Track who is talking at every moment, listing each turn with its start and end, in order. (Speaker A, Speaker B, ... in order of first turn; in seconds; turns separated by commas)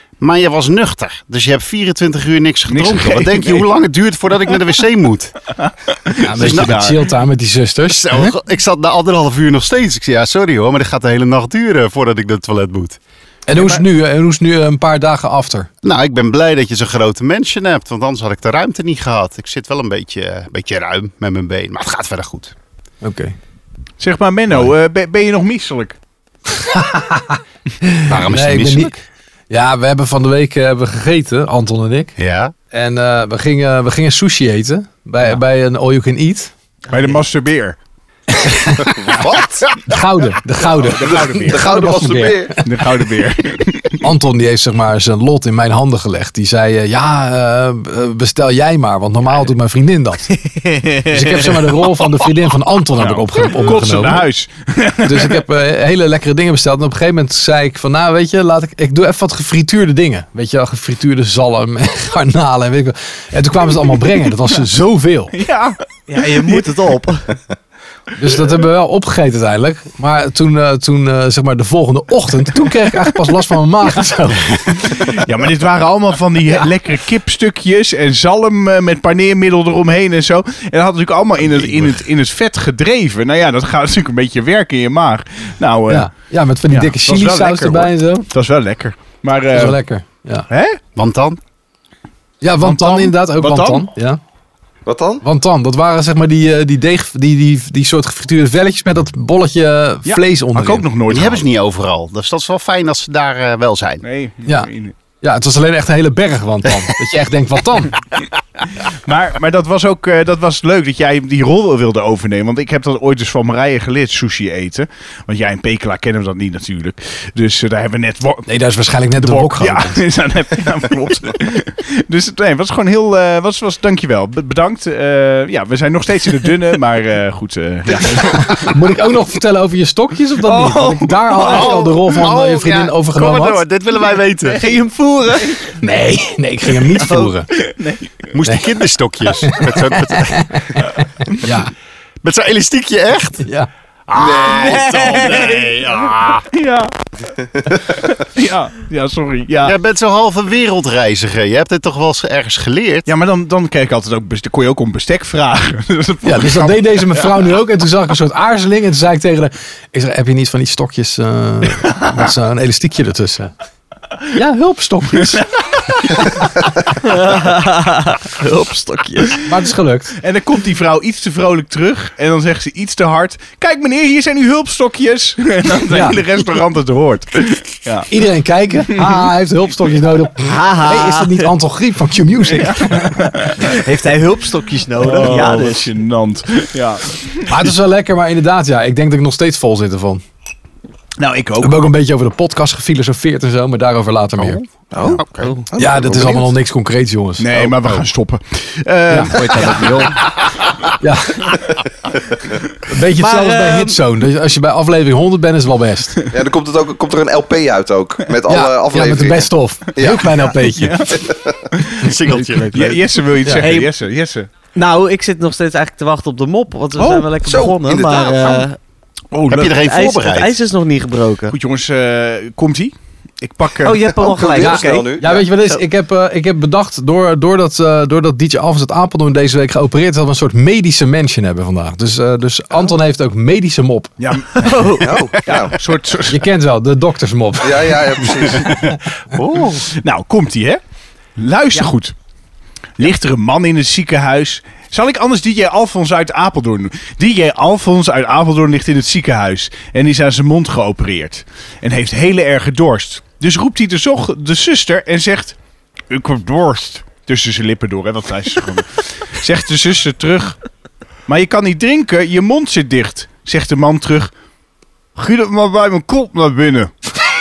Speaker A: 0.2-5.4, Speaker B: 2.7-3.7, Speaker B: 5.6-7.0, Speaker C: 6.2-8.3, Speaker A: 6.3-6.8, Speaker A: 7.9-13.0, Speaker C: 13.5-15.7, Speaker B: 13.6-13.8, Speaker A: 15.8-22.6, Speaker C: 23.0-23.4, Speaker B: 24.0-26.0, Speaker C: 26.5-28.9, Speaker A: 28.1-29.0, Speaker C: 29.5-32.1, Speaker A: 32.2-32.5, Speaker C: 32.7-36.5, Speaker B: 36.9-37.8, Speaker C: 38.3-38.9, Speaker D: 39.0-39.8, Speaker C: 39.8-42.6, Speaker B: 40.6-41.7, Speaker D: 41.5-42.6, Speaker B: 42.6-44.0, Speaker C: 44.0-50.4, Speaker E: 50.4-51.7, Speaker C: 51.1-54.3, Speaker B: 53.0-55.4, Speaker C: 55.0-65.3, Speaker B: 65.3-65.8, Speaker E: 66.1-67.4, Speaker B: 66.3-66.6, Speaker C: 68.2-75.2, Speaker B: 75.0-86.1, Speaker C: 85.9-88.3, Speaker B: 86.7-89.8, Speaker C: 89.5-90.5, Speaker B: 90.5-90.8, Speaker A: 91.0-91.4, Speaker C: 92.4-94.2, Speaker B: 92.6-93.9, Speaker D: 94.9-95.2, Speaker C: 95.2-100.9, Speaker B: 100.1-101.5, Speaker A: 101.1-104.0, Speaker B: 104.0-105.0, Speaker C: 105.2-108.0, Speaker B: 108.9-118.5, Speaker C: 118.5-120.0, Speaker B: 119.2-128.8, Speaker C: 128.3-133.6, Speaker E: 130.5-131.8, Speaker A: 131.5-134.6, Speaker E: 134.4-135.6, Speaker C: 135.8-137.5, Speaker B: 137.6-138.3, Speaker A: 138.3-140.8, Speaker C: 139.4-141.7, Speaker A: 142.2-143.4, Speaker A: 144.1-146.5, Speaker E: 144.2-145.7, Speaker B: 146.5-146.9, Speaker B: 148.0-149.8, Speaker A: 149.6-153.1, Speaker B: 153.1-157.3, Speaker C: 156.2-163.5, Speaker C: 164.3-166.5, Speaker E: 167.0-169.4, Speaker C: 169.4-170.2, Speaker B: 170.2-178.1, Speaker C: 175.9-176.2, Speaker C: 178.1-183.5, Speaker B: 178.9-179.2, Speaker E: 180.4-181.5, Speaker B: 182.5-183.7, Speaker E: 183.6-185.9, Speaker B: 185.0-187.7, Speaker C: 187.5-190.2, Speaker B: 191.2-191.8, Speaker C: 191.6-194.6, Speaker D: 194.9-196.5, Speaker A: 195.1-195.5, Speaker C: 195.8-198.0, Speaker B: 197.4-200.2, Speaker C: 199.1-199.4, Speaker E: 199.5-200.1, Speaker C: 201.0-201.6, Speaker C: 202.9-206.3, Speaker E: 203.2-204.0, Speaker D: 206.3-210.5, Speaker C: 208.5-211.1, Speaker B: 210.6-212.2, Speaker D: 211.2-211.5, Speaker A: 212.0-213.0, Speaker E: 212.3-213.0, Speaker B: 212.7-214.5, Speaker E: 213.6-213.9, Speaker E: 214.8-218.8, Speaker B: 217.0-217.3, Speaker D: 217.4-218.7, Speaker A: 219.4-220.6, Speaker E: 219.5-221.6, Speaker B: 221.5-224.1, Speaker E: 223.8-225.8, Speaker D: 224.1-225.5, Speaker C: 224.6-234.1, Speaker B: 234.2-236.4, Speaker E: 234.6-235.3, Speaker D: 235.0-235.8, Speaker C: 236.3-238.1, Speaker D: 237.6-238.8, Speaker A: 239.3-239.9, Speaker B: 239.9-240.8, Speaker B: 241.4-242.2, Speaker B: 243.0-255.6, Speaker B: 256.1-260.6, Speaker B: 261.3-264.3, Speaker B: 265.2-266.9